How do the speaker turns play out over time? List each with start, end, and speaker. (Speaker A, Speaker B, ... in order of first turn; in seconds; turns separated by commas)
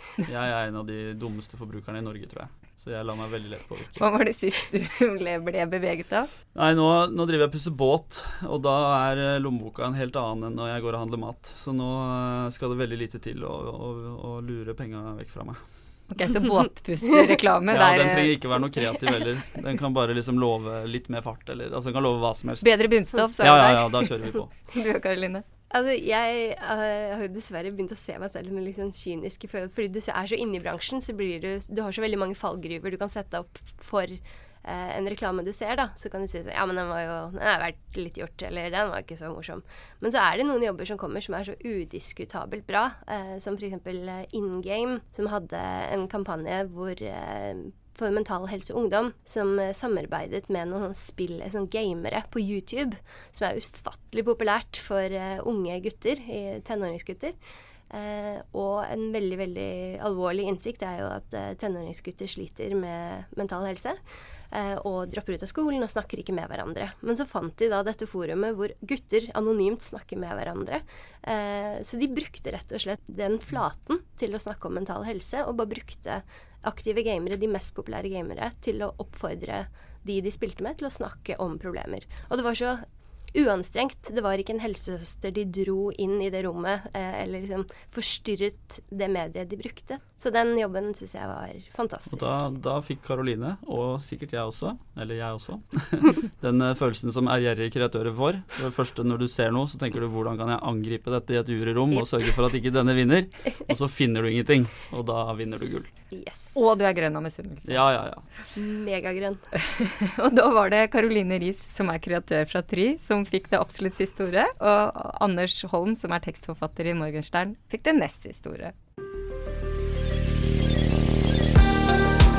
Speaker A: 0.2-4.0, Speaker B: 4.0-6.3, Speaker A: 6.5-15.6, Speaker B: 16.1-18.4, Speaker A: 17.7-22.7, Speaker B: 22.6-25.4, Speaker A: 23.4-24.5, Speaker C: 25.7-57.4, Speaker C: 57.9-64.0, Speaker C: 64.5-92.5, Speaker A: 92.1-105.9, Speaker C: 106.1-106.5, Speaker B: 106.5-107.8, Speaker A: 107.7-108.3, Speaker C: 108.5-109.5, Speaker B: 109.5-118.7